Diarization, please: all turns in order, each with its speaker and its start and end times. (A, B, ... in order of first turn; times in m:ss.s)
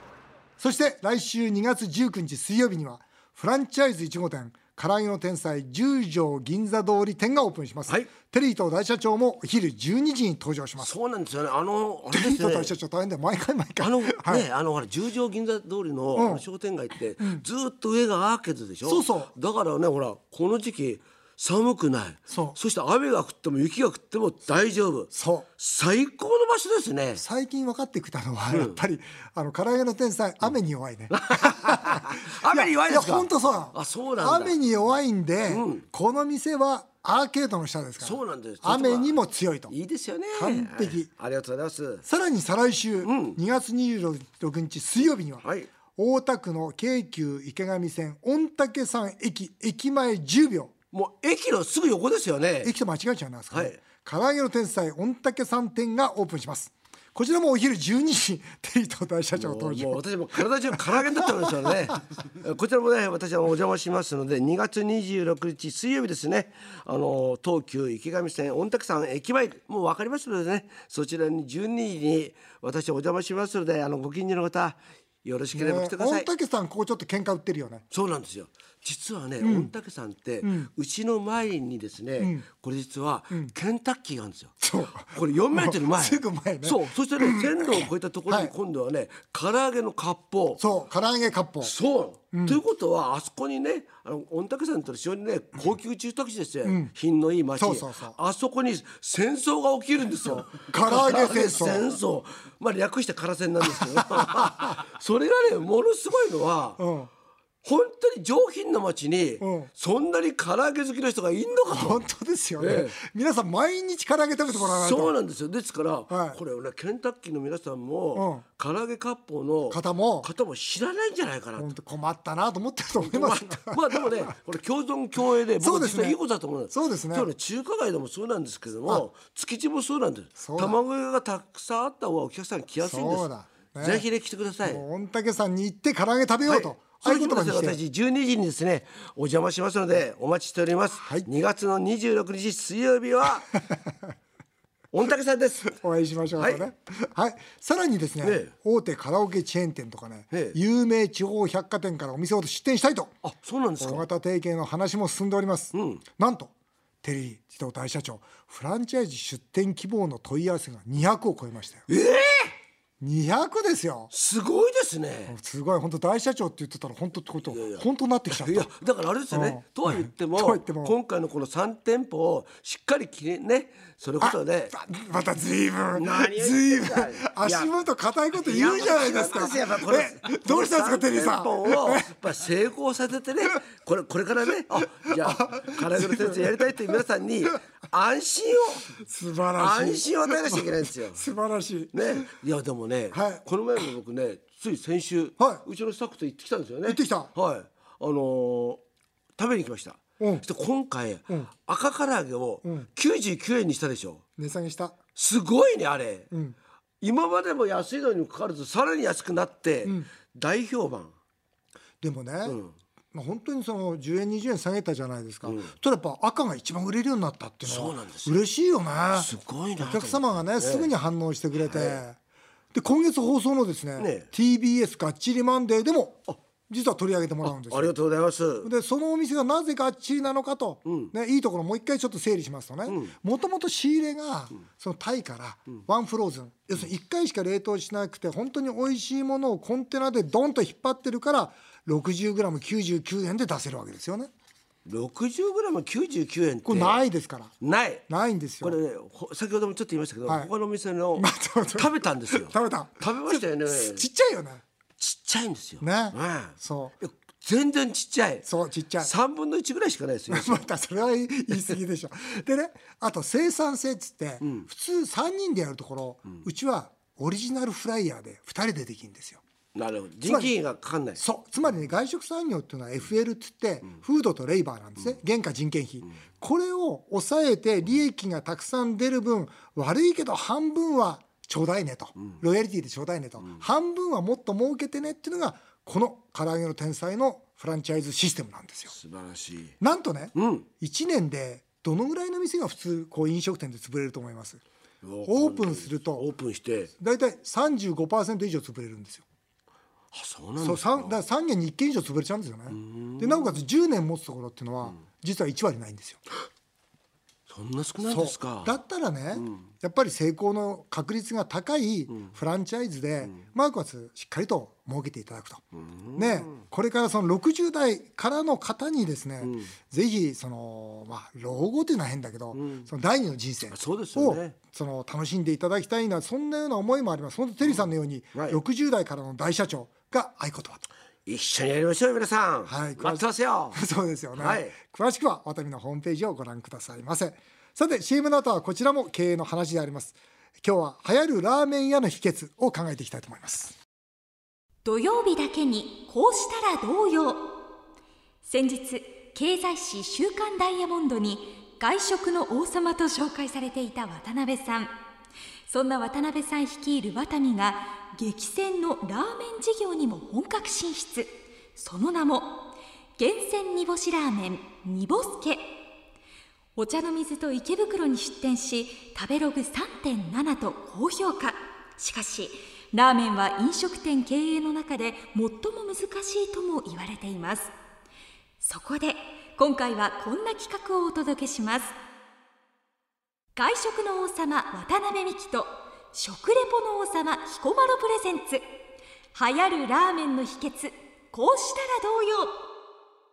0:00.6-0:10.9 A
0:10.8-0:12.7 B
0:12.1-0:14.5 A
0:13.8-0:27.2 B
0:16.1-0:16.4 A
0:17.2-0:17.4 A
0:18.8-0:19.3 A
0:22.3-0:22.6 A
0:25.1-0:25.5 A
0:27.2-0:39.7 A
0:28.5-0:28.8 B
0:31.1-0:34.6 B
0:35.5-0:35.8 B
0:38.0-0:42.0 B
0:40.3-0:41.1 A
0:42.0-0:50.7 A
0:43.0-0:43.4 B
0:45.4-0:45.7 B
0:50.9-0:52.7 B
0:52.6-1:01.5 A
0:53.5-0:53.8 B
0:59.3-1:16.3 B
1:15.5-1:17.8 A
1:17.9-1:30.6 B
1:19.4-1:19.7 A
1:20.4-1:20.7 A
1:22.2-1:22.4 A
1:24.6-1:28.5 A
1:30.6-1:31.7 A
1:31.6-1:46.8 B
1:32.3-1:32.6 A
1:36.6-1:36.9 A
1:37.6-1:38.2 A
1:40.3-1:41.9 A
1:46.8-1:47.1 A
1:47.6-1:52.0 B
1:49.4-1:49.7 A
1:51.7-1:55.1 A
1:52.6-1:53.0 B
1:54.5-2:01.7 B
1:56.1-1:56.4 A
1:58.1-1:58.4 A
1:59.7-2:00.3 A
2:01.6-2:04.3 A
2:03.0-2:14.8 B
2:05.6-2:07.3 A
2:10.4-2:10.8 A
2:12.8-2:14.0 A
2:14.6-2:17.8 A
2:16.4-2:23.5 B
2:21.0-2:21.3 A
2:24.9-2:25.8 B
2:25.8-2:33.2 A
2:26.4-2:26.6 B
2:28.2-2:28.5 B
2:30.3-2:30.6 B
2:33.2-2:34.1 B
2:33.8-2:36.5 A
2:35.7-2:36.0 B
2:37.0-2:41.9 A
2:41.9-2:42.6 B
2:43.0-2:44.1 A
2:44.1-2:45.4 B
2:45.3-2:48.7 A
2:47.4-2:54.7 B
2:49.3-2:51.0 A
2:54.2-3:02.2 A
2:55.9-2:57.7 B
2:58.3-3:08.9 B
3:04.9-3:06.5 A
3:09.0-3:12.3 A
3:09.6-3:11.2 B
3:11.9-3:18.8 B
3:13.1-3:13.4 A
3:15.4-3:15.6 A
3:16.8-3:17.3 A
3:19.4-3:24.2 B
3:20.2-3:20.4 A
3:24.4-3:25.0 A
3:25.2-3:26.3 B
3:26.3-3:26.6 A
3:27.0-3:31.1 B
3:29.8-3:30.1 A
3:32.0-3:32.6 A
3:32.4-3:32.7 B
3:33.1-3:42.2 A
3:35.4-3:35.7 B
3:37.6-3:38.4 B
3:39.1-3:40.9 B
3:41.6-3:42.0 B
3:42.7-3:47.9 A
3:44.0-3:44.3 B
3:47.4-3:48.7 B
3:48.6-4:04.3 A
3:50.8-3:51.1 B
3:52.9-3:53.1 B
4:04.8-4:07.0 B
4:06.6-4:07.5 A
4:07.6-4:08.0 B
4:08.1-4:08.8 A
4:08.6-4:14.1 B
4:11.2-4:14.6 A
4:15.0-4:18.5 B
4:15.8-4:17.0 A
4:18.4-4:19.1 A
4:19.0-4:20.6 B
4:20.3-4:29.4 A
4:24.4-4:24.7 B
4:29.7-4:31.2 B
4:30.2-4:30.5 A
4:31.2-4:48.9 A
4:48.9-4:49.8 B
4:49.8-4:54.6 A
4:50.3-4:50.7 B
4:55.0-4:56.9 B
4:55.2-4:56.3 A
4:57.0-4:59.2 A
5:00.1-5:01.2 B
5:00.6-5:06.2 A
5:02.7-5:03.6 B
5:07.5-5:08.8 B
5:08.0-5:15.6 A
5:09.3-5:09.6 B
5:15.7-5:16.6 B
5:16.1-5:30.9 A
5:19.4-5:19.7 B
5:22.5-5:22.9 B
5:23.7-5:24.6 B
5:27.6-5:28.6 B
5:31.2-5:33.8 B
5:32.6-5:43.7 A
5:34.4-5:34.7 B
5:44.8-5:47.6 C
5:48.4-5:54.9 C
5:55.7-6:05.8 C
6:06.8-6:17.7 C
6:18.6-6:21.9 C
6:23.6-6:28.6 C
6:29.3-6:32.6 C